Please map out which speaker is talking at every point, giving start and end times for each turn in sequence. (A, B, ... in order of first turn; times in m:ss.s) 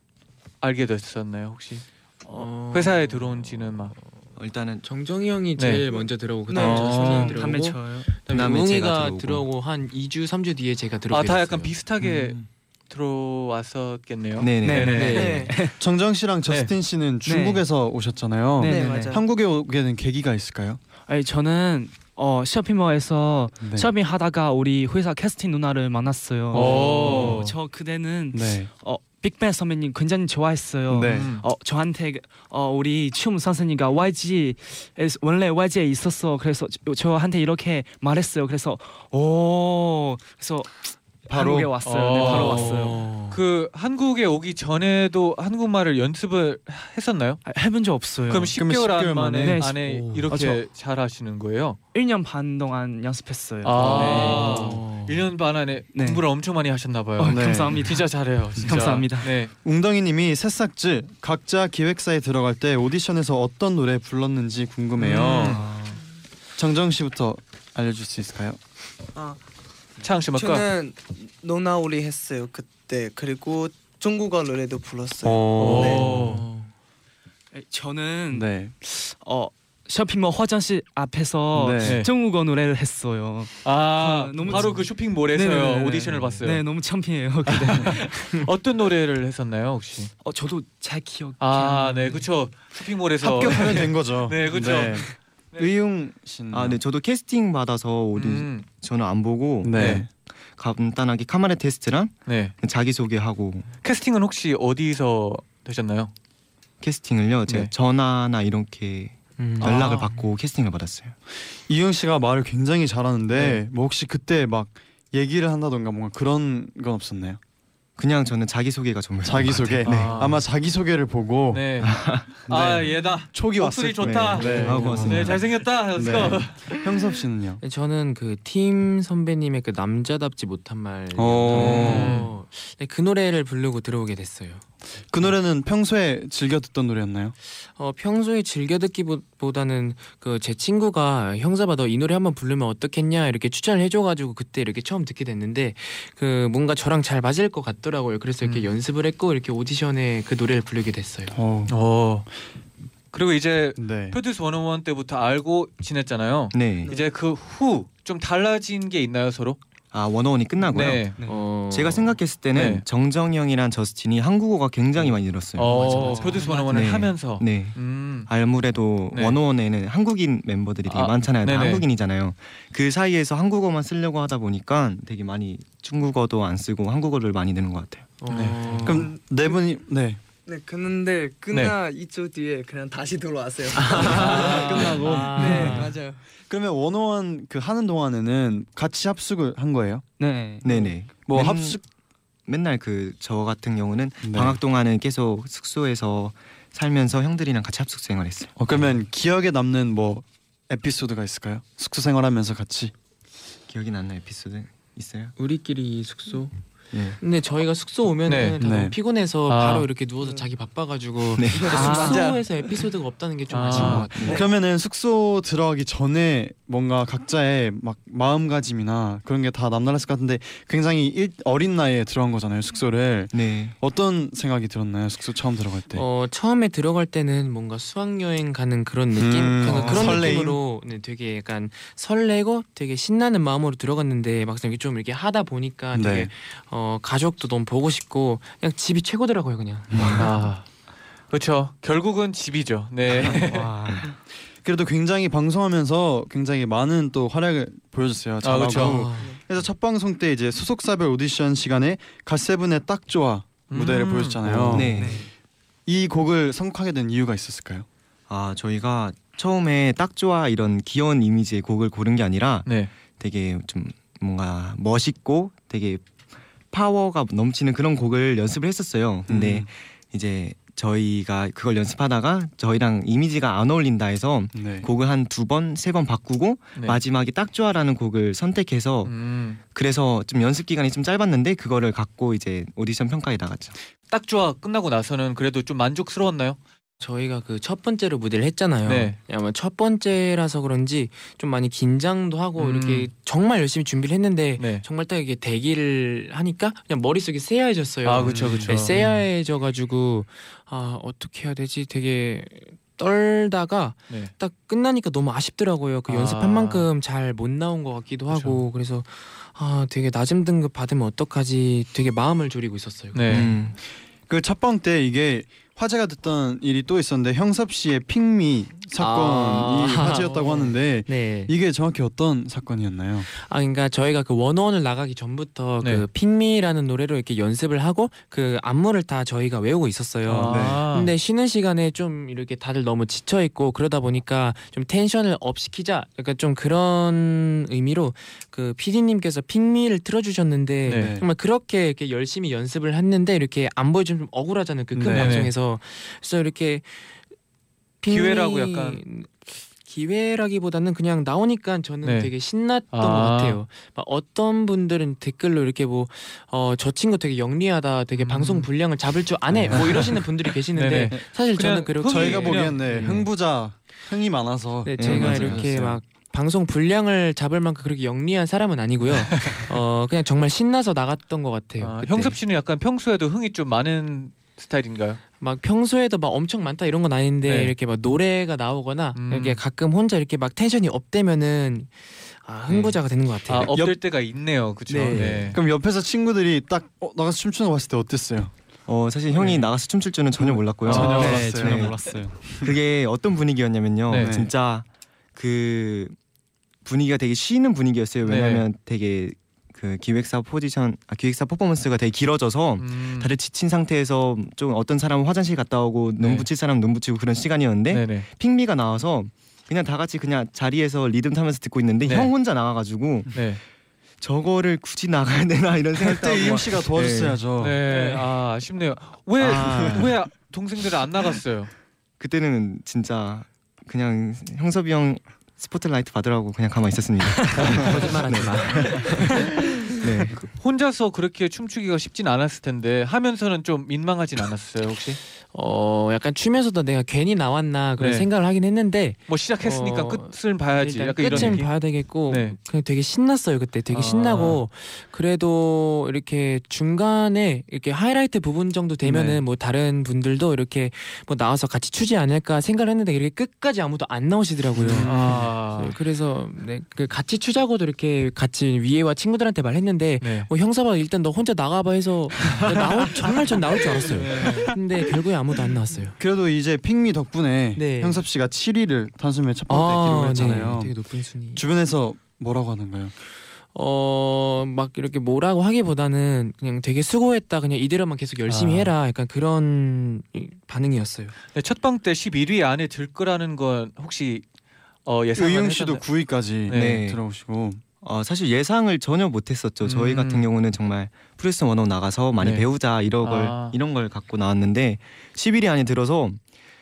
0:00.6-0:04.0 A
0:02.3-0:03.7 B
0:04.4-0:04.8 C
0:04.8-0:11.7 B
0:05.6-0:05.8 A
0:06.5-0:07.6 D
0:06.6-0:07.3 A
0:06.9-0:08.1 E
0:08.3-0:09.4 C
0:11.1-0:15.4 A
0:12.0-0:12.4 F
0:14.4-0:15.1 C
0:14.6-0:15.8 E
0:14.9-0:15.5 B
0:15.1-0:15.6 D
0:15.8-0:20.8 F
0:17.3-0:17.6 E
0:18.6-0:19.2 E
0:18.6-0:19.2 D
0:21.1-0:43.1 E
0:23.6-0:23.9 F
0:26.5-0:27.5 F
0:26.5-0:27.5 A
0:28.3-0:28.7 F
0:30.9-0:31.4 F
0:31.0-0:31.4 A
0:41.3-0:41.7 F
0:41.8-0:47.4 A
0:42.2-0:43.4 B
0:42.2-0:42.6 F
0:47.4-0:48.6 E
0:48.3-0:51.8 A
0:48.6-0:49.7 F
0:49.4-0:50.6 E
0:51.9-0:54.9 E
0:53.6-0:59.5 A
0:53.8-0:55.2 B
0:55.9-0:56.2 E
0:57.2-0:58.1 E
0:57.3-0:57.9 F
0:58.6-0:59.3 E
0:59.6-1:05.6 F
1:05.0-1:05.9 A
1:05.5-1:06.0 C
1:06.6-1:08.6 F
1:10.0-1:10.7 A
1:10.4-1:16.1 D
1:15.2-1:16.3 F
1:15.6-1:16.4 A
1:16.1-1:16.7 B
1:17.5-1:28.5 E
1:18.3-1:18.7 F
1:21.6-1:22.0 F
1:21.8-1:22.1 A
1:23.6-1:26.6 A
1:27.6-1:30.1 A
1:27.6-1:27.9 F
1:30.2-1:32.3 E
1:31.4-1:35.7 A
1:33.2-1:36.8 F
1:36.5-1:40.0 C
1:38.1-1:38.7 A
1:39.6-1:40.1 F
1:39.7-1:40.0 A
1:40.6-1:43.7 C
1:42.3-1:42.5 A
1:43.8-1:46.1 A
1:46.8-1:51.2 C
1:49.4-1:50.0 B
1:49.6-1:50.0 A
1:51.7-1:57.4 F
1:58.0-2:00.2 C
1:59.2-2:01.7 F
1:59.8-2:00.4 A
2:01.5-2:01.9 A
2:01.8-2:02.4 C
2:02.4-2:06.7 A
2:02.5-2:07.6 F
2:04.0-2:05.4 C
2:04.4-2:05.3 B
2:07.6-2:14.6 B
2:11.1-2:12.2 F
2:11.5-2:12.3 A
2:15.1-2:17.4 F
2:17.5-2:31.4 B
2:28.4-2:28.7 A
2:31.3-2:31.7 F
2:31.7-2:32.3 A
2:33.1-2:39.6 A
2:33.8-2:34.2 F
2:36.5-2:36.9 C
2:39.9-2:41.1 C
2:40.7-2:41.2 A
2:41.2-2:41.5 E
2:41.3-2:42.2 B
2:41.7-2:46.2 C
2:42.5-2:42.8 A
2:45.6-2:48.3 A
2:45.7-2:46.5 E
2:45.7-2:46.8 B
2:46.5-2:46.7 D
2:46.7-2:58.1 C
2:49.1-2:49.4 A
2:50.9-2:51.9 A
2:58.2-2:59.1 B
2:58.3-3:00.2 F
2:58.7-2:59.6 D
3:00.5-3:06.2 D
3:03.8-3:05.9 F
3:04.0-3:04.3 A
3:04.0-3:05.9 B
3:05.5-3:05.8 A
3:06.5-3:10.0 F
3:10.2-3:10.6 E
3:10.6-3:11.8 C
3:11.3-3:11.8 F
3:12.5-3:18.5 C
3:14.2-3:14.6 F
3:18.6-3:22.9 F
3:23.7-3:25.3 C
3:25.4-3:26.6 B
3:26.9-3:27.2 C
3:27.2-3:34.4 B
3:28.3-3:28.6 A
3:28.6-3:29.0 F
3:29.5-3:29.9 A
3:31.4-3:32.0 C
3:31.5-3:32.3 D
3:31.7-3:32.4 E
3:33.5-3:34.2 A
3:33.8-3:46.0 F
3:43.3-3:43.8 C
3:45.9-4:00.3 B
3:49.1-3:50.6 F
3:49.7-3:50.1 A
3:55.9-3:56.3 F
3:59.9-4:00.3 F
4:00.2-4:00.7 A
4:01.3-4:03.8 A
4:03.3-4:04.2 E
4:04.6-4:15.2 F
4:08.4-4:09.1 A
4:08.7-4:09.3 B
4:13.7-4:14.9 A
4:14.7-4:15.3 C
4:14.7-4:15.3 E
4:15.9-4:17.9 F
4:18.3-4:26.1 C
4:22.6-4:22.9 A
4:26.7-4:39.1 C
4:29.3-4:29.7 F
4:34.5-4:34.9 F
4:36.8-4:37.0 A
4:39.0-4:39.6 A
4:39.7-4:43.7 C
4:44.1-4:46.6 A
4:47.0-5:13.5 B
4:48.9-4:49.2 A
4:52.6-4:53.1 A
4:54.6-4:54.8 A
4:58.0-4:59.1 A
4:58.2-4:59.1 F
5:06.1-5:06.9 A
5:08.3-5:08.6 A
5:13.1-5:13.5 A
5:13.3-5:13.8 C
5:14.3-5:23.3 F
5:19.0-5:21.5 B
5:23.3-5:47.1 B
5:25.8-5:26.1 A
5:30.3-5:31.1 A
5:30.5-5:30.8 F
5:40.9-5:41.1 A
5:40.9-5:41.3 F
5:44.9-5:45.4 F
5:45.1-5:45.5 A
5:48.0-6:03.3 B
5:48.1-5:49.0 A
5:52.0-5:52.3 A
5:52.9-5:53.6 A
5:58.2-5:58.7 A
5:59.5-6:00.1 F
5:59.8-6:00.0 A
6:00.7-6:03.0 A
6:02.0-6:05.9 F
6:04.8-6:12.1 B
6:05.0-6:06.0 C
6:11.8-6:15.2 A
6:15.4-6:23.8 B
6:17.5-6:17.7 A
6:19.2-6:19.6 A
6:22.7-6:23.0 A
6:23.5-6:25.6 A
6:24.9-6:25.6 E
6:25.1-6:25.4 B
6:25.5-6:28.5 F
6:28.9-6:36.2 C
6:29.4-6:29.6 F
6:30.4-6:32.7 F
6:30.9-6:31.4 A
6:30.9-6:32.5 E
6:34.1-6:34.4 A
6:34.1-6:34.5 F
6:36.8-6:53.4 C
6:38.2-6:38.6 A
6:42.8-6:43.3 A
6:46.2-6:46.5 A
6:47.9-6:48.3 A
6:52.0-6:52.3 A
6:53.3-6:53.6 A
6:54.2-6:57.4 C
6:56.0-6:57.8 F
6:57.6-7:01.7 A
6:59.4-7:00.1 C
6:59.4-7:00.1 F
7:02.2-7:10.4 C
7:07.7-7:09.7 B
7:10.4-7:15.2 A
7:15.4-7:46.2 B
7:18.0-7:18.3 A
7:19.3-7:22.6 A
7:21.3-7:21.6 F
7:23.9-7:24.6 A
7:29.1-7:29.4 A
7:34.8-7:35.4 F
7:35.0-7:36.0 A
7:40.2-7:40.5 A
7:44.0-7:44.7 A
7:44.1-7:44.7 F
7:46.2-7:50.9 F
7:47.8-7:48.2 B
7:49.7-7:51.6 B
7:51.6-7:53.1 F
7:53.7-8:01.4 B
7:58.5-7:58.9 A
8:01.5-8:04.4 A
8:05.1-8:06.1 A
8:05.4-8:07.8 F
8:06.7-8:07.0 A
8:06.7-8:07.2 C
8:08.0-8:16.4 C
8:09.8-8:10.5 A
8:12.4-8:12.7 A
8:13.2-8:13.8 A